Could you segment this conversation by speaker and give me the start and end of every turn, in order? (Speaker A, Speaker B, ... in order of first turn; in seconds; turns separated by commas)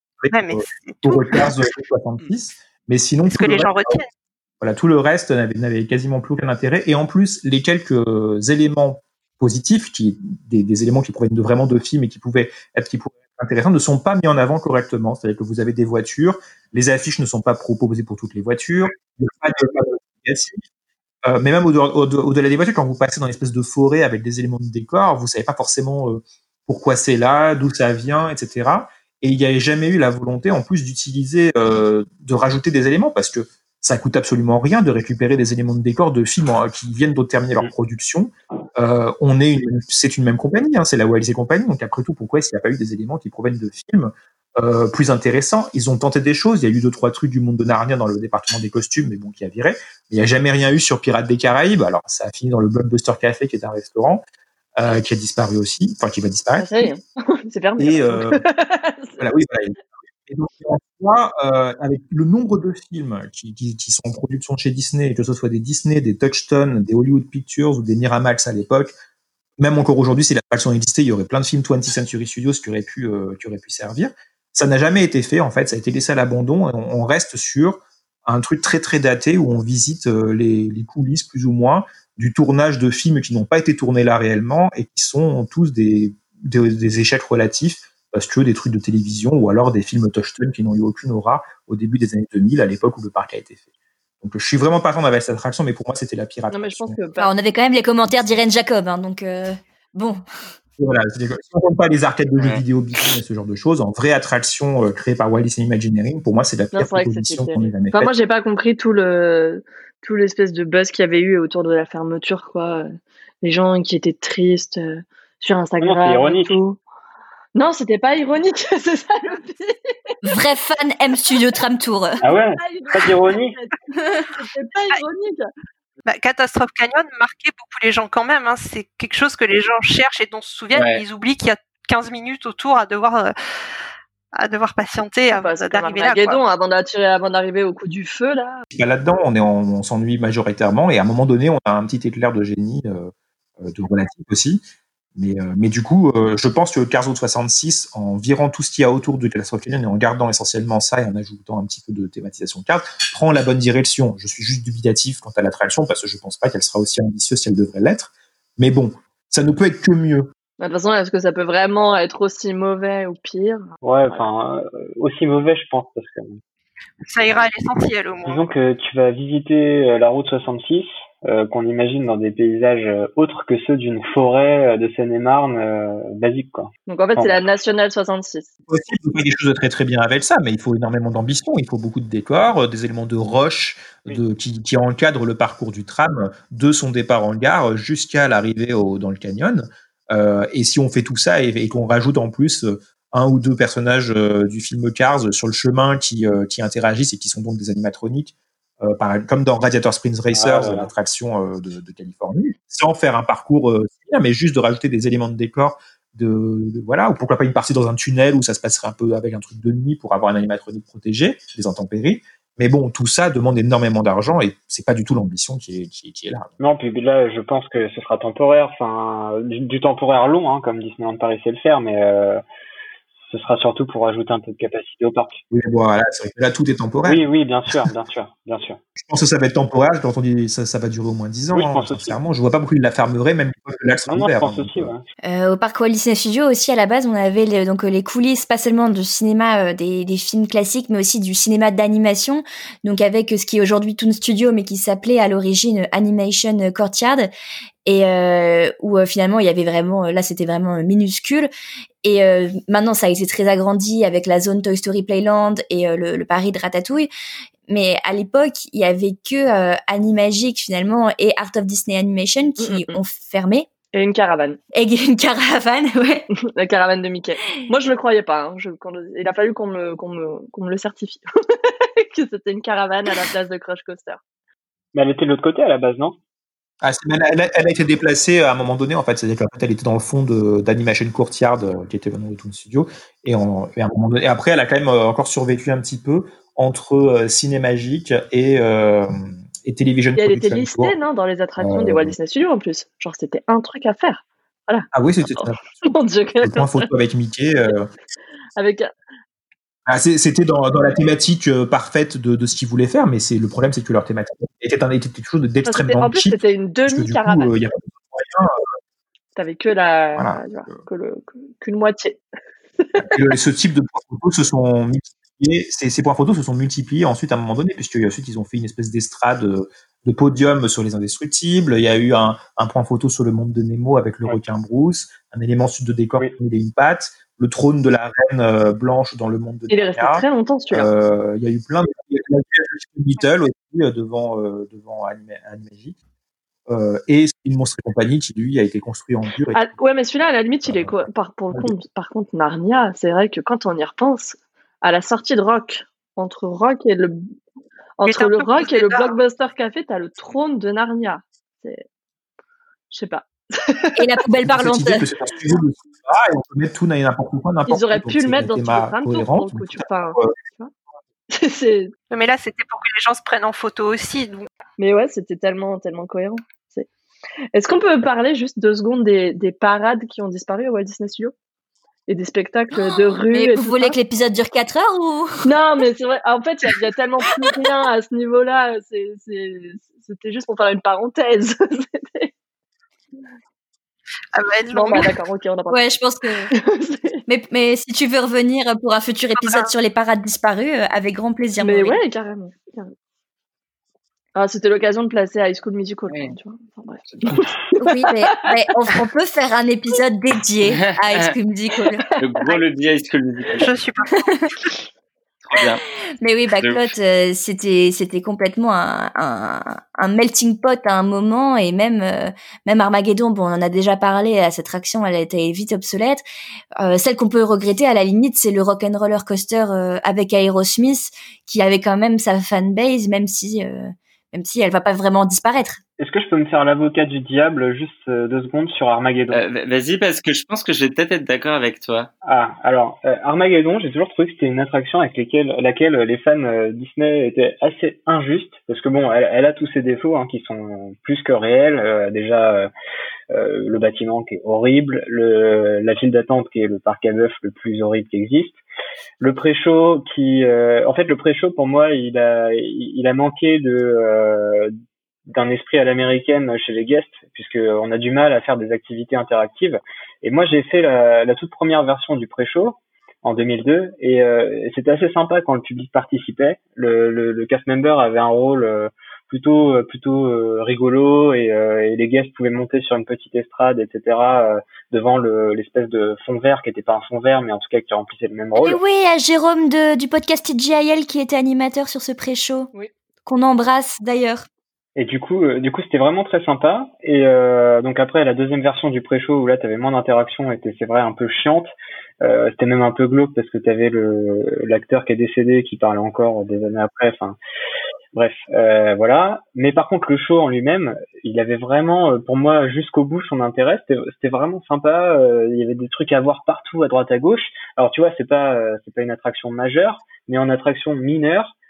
Speaker A: 0.2-4.0, Speaker B: 0.3-1.4, Speaker B: 3.3-4.1, Speaker A: 4.6-20.6, Speaker A: 21.2-54.2, Speaker A: 54.8-56.9, Speaker C: 56.6-59.2, Speaker A: 57.8-58.4, Speaker A: 59.2-68.9, Speaker A: 69.6-93.6, Speaker A: 94.2-97.0, Speaker C: 96.5-97.3, Speaker D: 97.2-100.2, Speaker A: 100.8-108.1, Speaker C: 106.7-112.9, Speaker C: 113.4-116.8, Speaker E: 115.8-116.6, Speaker C: 117.5-120.1, Speaker D: 120.2-122.2, Speaker E: 122.2-123.6, Speaker C: 122.3-125.4, Speaker B: 126.0-133.3, Speaker B: 134.3-136.4, Speaker C: 135.3-138.6, Speaker A: 138.7-144.6, Speaker A: 145.2-160.3, Speaker C: 160.6-163.7, Speaker E: 163.8-166.4, Speaker B: 167.0-168.4, Speaker E: 168.2-177.4, Speaker C: 176.9-178.5, Speaker A: 178.7-216.5, Speaker E: 200.3-200.9, Speaker E: 216.6-222.4, Speaker E: 223.2-225.4, Speaker A: 225.5-227.2, Speaker E: 227.0-228.8, Speaker A: 228.9-234.9, Speaker E: 231.5-232.2, Speaker E: 234.1-235.0, Speaker D: 235.2-247.3, Speaker D: 247.8-251.5, Speaker D: 252.0-257.1, Speaker D: 257.7-263.7, Speaker C: 262.6-263.0, Speaker C: 263.9-264.6, Speaker D: 264.7-266.2, Speaker C: 266.5-274.2, Speaker E: 274.9-276.1, Speaker A: 276.8-290.9, Speaker C: 290.2-296.8, Speaker A: 291.6-292.1, Speaker A: 294.9-295.8, Speaker A: 296.4-297.9, Speaker C: 298.6-298.9, Speaker A: 299.9-308.6, Speaker C: 305.6-307.5, Speaker C: 309.4-312.2, Speaker A: 310.2-310.8, Speaker C: 312.8-313.1, Speaker A: 313.0-335.9, Speaker C: 329.7-330.9, Speaker A: 336.7-339.7, Speaker C: 339.5-347.3, Speaker A: 340.6-341.7, Speaker C: 348.0-351.8, Speaker B: 348.0-349.1, Speaker C: 352.9-353.9, Speaker D: 354.0-355.1, Speaker A: 354.4-360.3, Speaker C: 357.7-360.7, Speaker C: 361.3-361.9, Speaker B: 362.1-364.5, Speaker C: 364.8-366.9, Speaker C: 367.5-371.3, Speaker C: 372.1-373.9, Speaker D: 372.7-375.5, Speaker C: 375.4-382.3, Speaker B: 384.3-385.1, Speaker C: 384.7-385.8, Speaker D: 385.7-386.5, Speaker C: 386.5-387.2, Speaker D: 387.3-392.0, Speaker B: 389.4-389.7, Speaker C: 391.6-392.9, Speaker C: 394.3-398.3, Speaker D: 397.8-402.0, Speaker F: 400.7-401.3, Speaker F: 402.2-403.7, Speaker B: 403.6-404.3, Speaker F: 405.5-405.8, Speaker D: 406.2-416.2, Speaker F: 406.6-406.9, Speaker D: 416.8-425.8, Speaker E: 426.0-429.4, Speaker F: 429.3-432.1, Speaker E: 432.2-442.7, Speaker E: 443.3-448.6, Speaker E: 449.2-454.7, Speaker E: 455.3-478.8, Speaker D: 478.5-482.7, Speaker D: 483.2-484.5, Speaker E: 484.9-497.4, Speaker E: 498.1-511.5